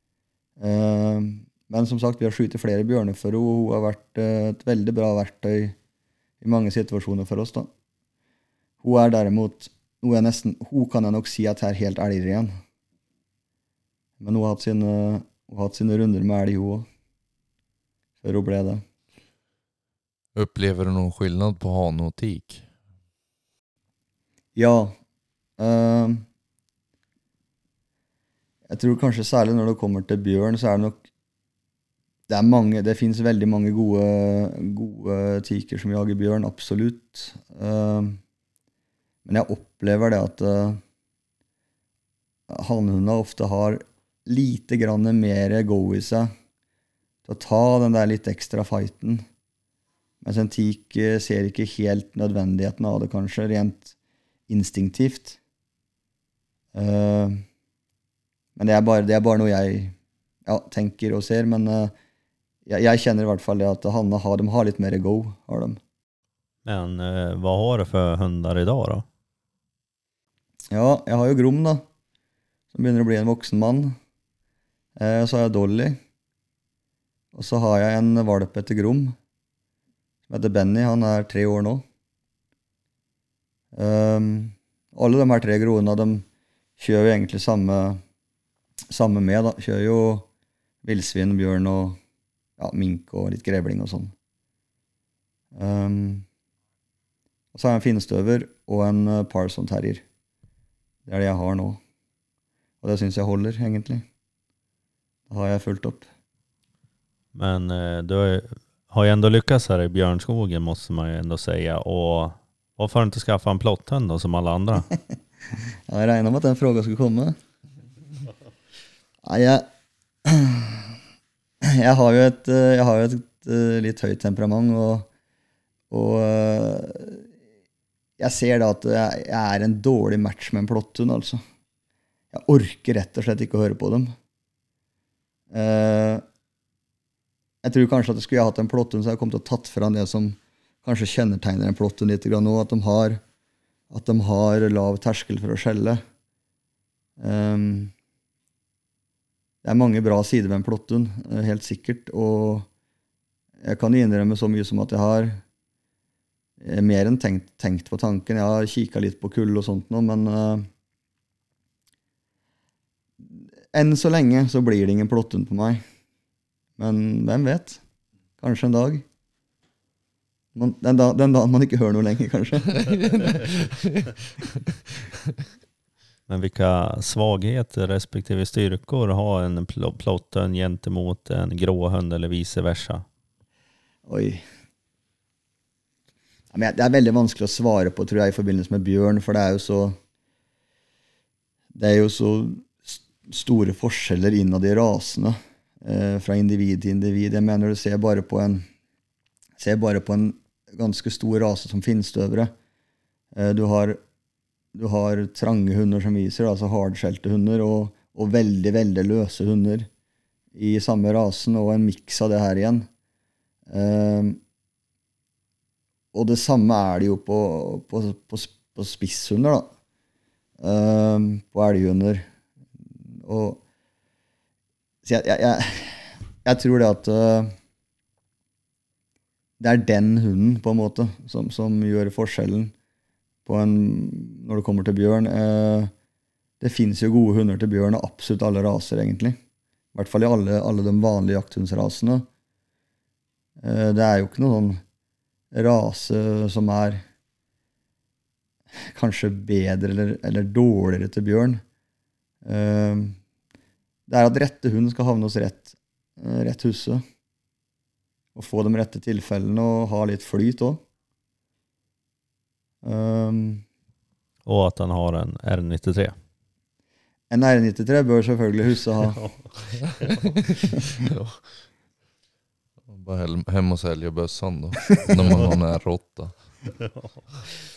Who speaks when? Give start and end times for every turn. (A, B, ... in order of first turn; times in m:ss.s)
0:00.6-0:05.8 A
0:06.4-0:07.7 A
0:08.8-0:12.5 A
0:14.2-0:16.9 A
0:18.2-0:18.8 A
0:20.3-0:22.7 B
0:24.6-0:25.0 A
0:25.6-0:26.2 A
0:28.7-0:31.0 A
0:32.3-0:38.2 A
0:39.2-0:40.8 A
0:42.5-0:46.3 A
0:47.2-0:49.2 A
0:50.2-0:53.9 A
0:54.5-0:55.4 A
0:56.7-0:57.4 A
0:58.6-1:00.0 A
1:00.5-1:01.9 A
1:02.6-1:05.8 A
1:06.6-1:09.0 C
1:10.7-1:11.8 A
1:12.7-1:14.0 A
1:15.0-1:16.0 A
1:17.3-1:19.1 A
1:20.3-1:21.8 A
1:23.7-1:26.2 A
1:26.8-1:28.0 A
1:28.9-1:30.2 A
1:30.8-1:32.0 A
1:32.6-1:34.1 A
1:35.5-1:36.2 A
1:37.5-1:40.0 A
1:41.1-1:41.8 A
1:42.8-1:44.0 A
1:45.3-1:46.1 A
1:47.3-1:54.9 C
1:55.9-1:57.4 A
1:59.2-1:59.7 A
2:00.2-2:00.9 A
2:01.6-2:05.1 A
2:05.9-2:07.2 A
2:08.2-2:11.4 A
2:12.3-2:14.1 A
2:15.5-2:16.2 A
2:17.6-2:23.2 A
2:23.9-2:26.0 A
2:27.2-2:27.9 A
2:29.6-2:32.7 A
2:33.6-2:35.4 A
2:36.6-2:40.7 A
2:43.7-2:45.8 A
2:46.8-2:47.8 A
2:48.4-2:49.0 A
2:50.5-2:52.7 A
2:56.3-3:03.0 C
3:04.0-3:04.4 A
3:06.5-3:10.0 A
3:11.7-3:18.6 A
3:19.6-3:22.5 A
3:23.3-3:24.0 A
3:24.7-3:29.9 A
3:30.5-3:32.9 A
3:33.7-3:34.4 A
3:36.1-3:39.7 A
3:40.6-3:42.2 A
3:43.1-3:43.6 A
3:45.0-3:47.5 A
3:49.6-3:52.7 A
3:53.4-3:55.9 A
3:56.6-3:59.4 A
3:59.9-4:02.2 A
4:03.6-4:04.8 A
4:05.5-4:07.0 A
4:08.9-4:11.6 A
4:12.4-4:13.2 A
4:14.1-4:17.0 A
4:18.3-4:20.8 A
4:22.8-4:23.6 A
4:24.4-4:26.2 C
4:27.3-4:29.2 A
4:31.0-4:31.6 B
4:32.9-4:36.4 B